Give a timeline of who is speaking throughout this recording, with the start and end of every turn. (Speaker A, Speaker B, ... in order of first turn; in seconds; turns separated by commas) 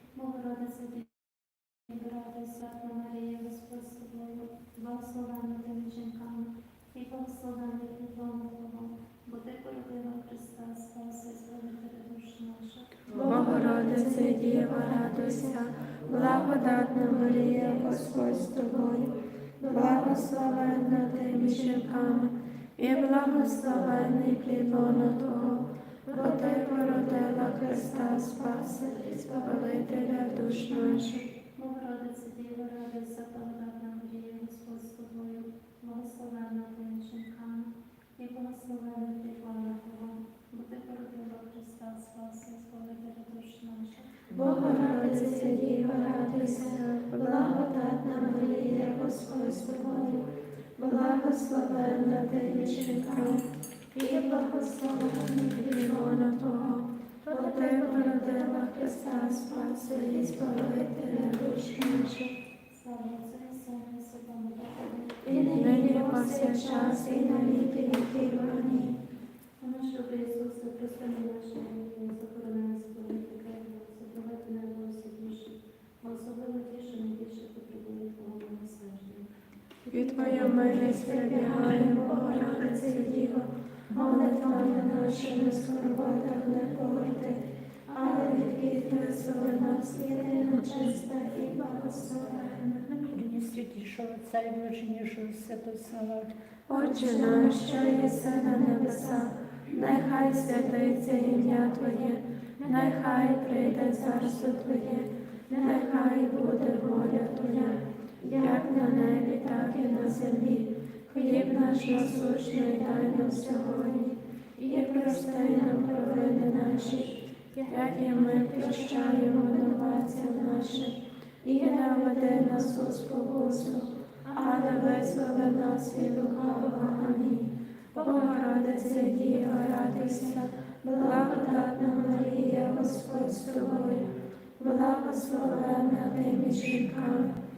Speaker A: 0.1-13.9, Speaker B: 13.1-19.0, Speaker C: 13.2-19.1, Speaker B: 19.6-20.9, Speaker C: 19.7-31.3, Speaker A: 26.1-26.4, Speaker B: 26.1-26.8, Speaker A: 27.0-27.3, Speaker B: 27.6-28.4, Speaker B: 28.9-29.8, Speaker A: 31.6-44.2, Speaker C: 44.3-47.6, Speaker B: 44.3-50.3, Speaker B: 50.8-53.4, Speaker C: 50.9-53.5, Speaker A: 54.0-55.1, Speaker B: 54.0-56.7, Speaker C: 55.2-61.4, Speaker A: 57.2-58.7, Speaker B: 57.3-62.3, Speaker A: 62.7-66.0, Speaker B: 65.2-68.9, Speaker C: 65.5-68.8, Speaker A: 69.6-79.3, Speaker A: 79.9-81.3, Speaker C: 79.9-86.8, Speaker B: 80.2-83.3, Speaker B: 83.9-92.8, Speaker A: 88.0-88.4, Speaker C: 88.6-89.8, Speaker D: 92.9-96.3, Speaker C: 96.7-107.8, Speaker B: 96.7-102.0, Speaker A: 102.6-104.1, Speaker B: 105.5-107.5, Speaker B: 108.2-110.6, Speaker C: 108.4-117.1, Speaker B: 111.1-114.1, Speaker B: 114.6-116.8, Speaker A: 114.9-115.7, Speaker A: 117.5-120.0, Speaker C: 117.7-121.0, Speaker B: 121.5-127.5, Speaker C: 121.5-123.9, Speaker A: 124.3-124.6, Speaker C: 124.4-127.4, Speaker B: 128.0-134.0, Speaker C: 128.0-134.1, Speaker B: 134.6-136.3, Speaker C: 134.6-137.4